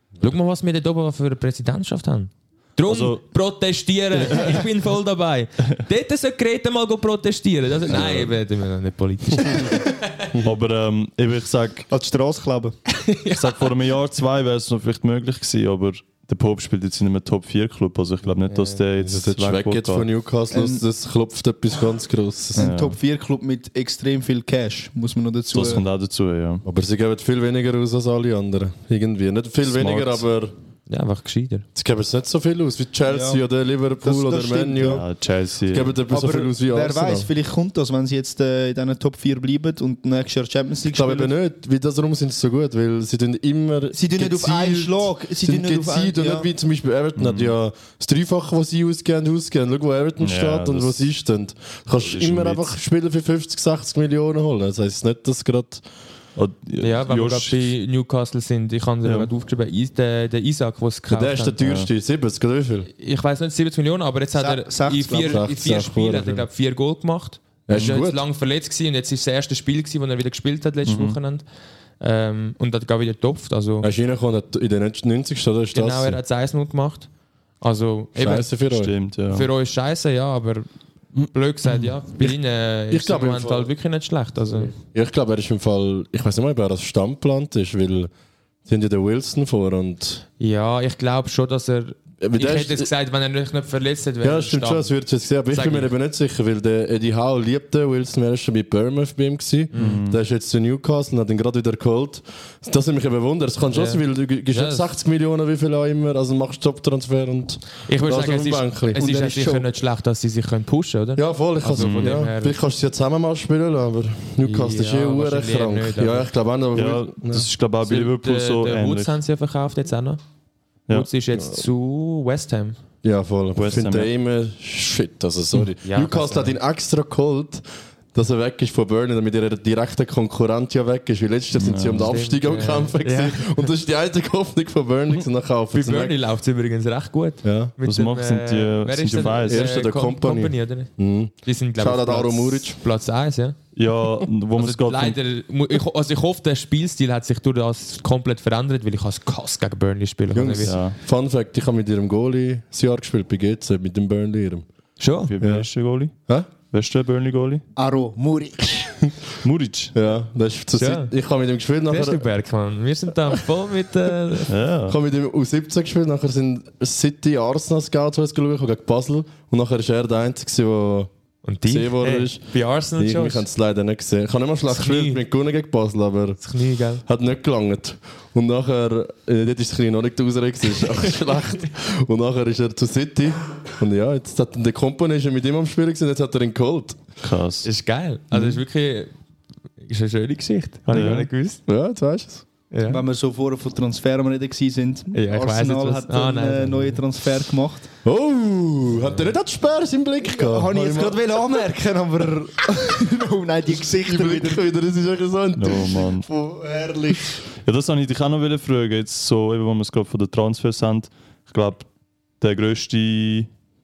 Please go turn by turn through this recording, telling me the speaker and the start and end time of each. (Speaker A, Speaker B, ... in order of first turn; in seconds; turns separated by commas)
Speaker A: 0.2-10.3, Speaker B: 2.9-3.2, Speaker B: 4.2-4.7, Speaker B: 7.9-8.2, Speaker C: 7.9-8.3, Speaker B: 10.4-11.9, Speaker D: 11.9-12.8, Speaker A: 12.9-13.7, Speaker B: 13.3-20.1, Speaker A: 18.5-18.8, Speaker C: 19.0-22.7, Speaker D: 20.5-20.8, Speaker D: 22.6-25.8, Speaker B: 22.6-23.0, Speaker B: 25.5-26.6, Speaker C: 26.6-30.5, Speaker B: 29.7-30.2, Speaker A: 30.9-31.7, Speaker C: 31.8-35.0, Speaker D: 33.1-33.4, Speaker D: 34.0-35.0, Speaker B: 34.8-36.0, Speaker C: 35.7-37.3, Speaker D: 36.1-41.3, Speaker C: 40.9-55.8, Speaker D: 43.9-46.5, Speaker B: 47.2-47.5, Speaker B: 50.2-50.9, Speaker B: 52.0-52.7, Speaker B: 56.4-57.7, Speaker A: 56.8-61.6, Speaker C: 61.1-62.9, Speaker B: 61.6-61.9, Speaker A: 63.0-71.5, Speaker D: 64.3-65.4, Speaker C: 65.2-66.5, Speaker C: 67.7-68.2, Speaker B: 70.9-71.2, Speaker A: 72.0-73.9, Speaker C: 73.8-76.2, Speaker A: 75.7-77.1, Speaker A: 77.6-78.5, Speaker C: 78.2-78.9, Speaker B: 78.7-79.5, Speaker A: 79.3-80.7, Speaker A: 81.3-84.7, Speaker C: 82.9-83.7, Speaker C: 84.5-88.1, Speaker C: 88.7-90.2, Speaker A: 90.4-94.9, Speaker C: 92.2-92.9, Speaker C: 94.2-109.4, Speaker A: 95.5-95.9, Speaker A: 99.7-100.0, Speaker B: 99.8-100.2, Speaker A: 103.7-104.9, Speaker A: 107.9-112.6, Speaker D: 109.0-109.7, Speaker C: 111.2-117.5, Speaker B: 111.7-112.2, Speaker A: 114.4-116.3, Speaker B: 116.7-119.2, Speaker A: 117.8-120.2, Speaker A: 120.9-122.8, Speaker C: 123.0-136.2, Speaker B: 123.5-124.1, Speaker A: 125.8-126.6, Speaker B: 131.5-132.2, Speaker A: 132.1-133.7, Speaker A: 135.7-140.9, Speaker C: 137.4-137.7, Speaker B: 137.8-139.8, Speaker C: 139.5-142.8, Speaker A: 141.4-143.6, Speaker B: 143.8-145.2, Speaker A: 144.6-150.8, Speaker C: 150.3-154.7, Speaker B: 150.6-151.0, Speaker A: 155.0-155.3, Speaker B: 155.3-156.1, Speaker C: 155.4-155.7, Speaker B: 156.7-157.6, Speaker D: 157.8-159.1, Speaker B: 159.4-159.9, Speaker C: 159.9-162.2, Speaker A: 160.8-161.1, Speaker A: 161.9-164.5, Speaker B: 164.5-165.0, Speaker C: 164.9-171.1, Speaker A: 171.4-173.5, Speaker C: 171.7-172.5, Speaker C: 173.0-176.4, Speaker A: 174.7-175.2, Speaker A: 176.4-177.0, Speaker C: 177.0-187.0, Speaker B: 187.2-187.7, Speaker A: 187.6-189.1, Speaker A: 189.8-191.6, Speaker B: 190.9-191.3, Speaker C: 191.7-192.4, Speaker A: 192.7-193.0, Speaker D: 192.9-197.9, Speaker A: 195.1-197.0, Speaker C: 198.1-201.2, Speaker D: 200.2-204.7, Speaker C: 203.7-206.1, Speaker B: 205.6-206.3, Speaker D: 206.3-207.3, Speaker B: 207.6-211.9, Speaker B: 212.4-213.5